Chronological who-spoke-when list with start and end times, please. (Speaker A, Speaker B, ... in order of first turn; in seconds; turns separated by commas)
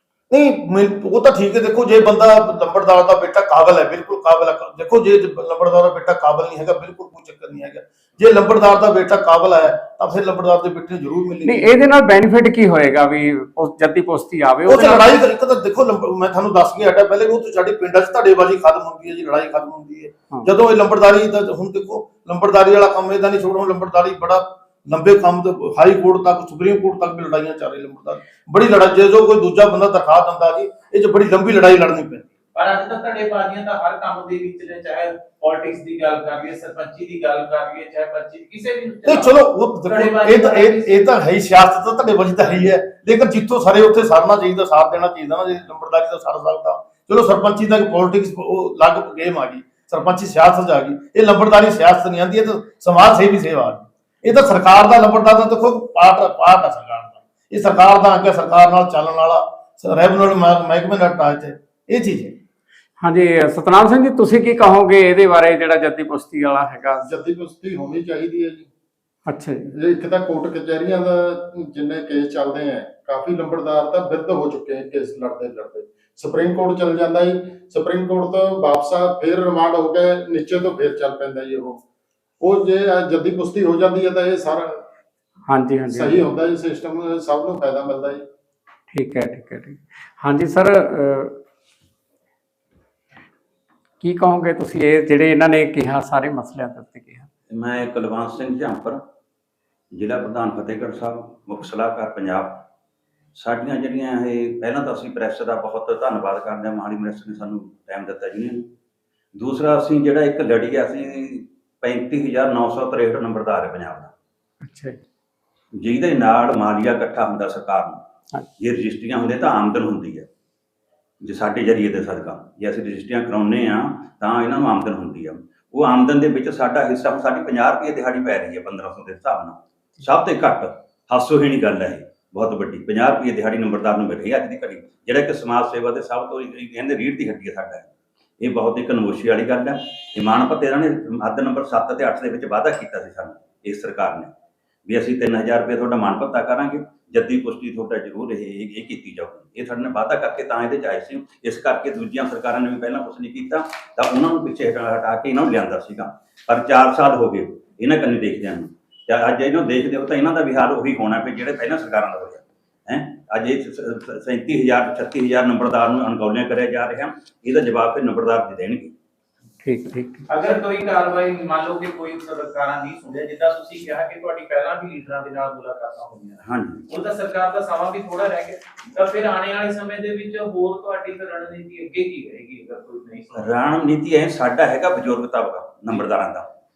Speaker A: 0.3-11.7, Speaker B: 11.4-15.1, Speaker A: 14.7-32.3, Speaker C: 32.5-39.3, Speaker A: 39.0-62.3, Speaker C: 39.8-41.0, Speaker B: 63.0-67.0, Speaker D: 67.0-68.7, Speaker B: 69.3-69.6, Speaker D: 69.7-81.8, Speaker D: 82.4-84.8, Speaker B: 85.5-86.2, Speaker D: 85.9-88.2, Speaker B: 88.9-91.4, Speaker B: 94.0-97.3, Speaker E: 97.5-99.0, Speaker E: 99.9-102.6, Speaker E: 103.3-108.7, Speaker E: 109.3-114.1, Speaker B: 114.6-115.0, Speaker E: 115.8-118.0, Speaker E: 118.6-120.3, Speaker E: 121.2-137.9, Speaker E: 138.4-144.3, Speaker E: 144.9-168.9, Speaker B: 169.6-170.3, Speaker C: 170.3-183.5, Speaker E: 176.4-176.9, Speaker E: 183.3-186.4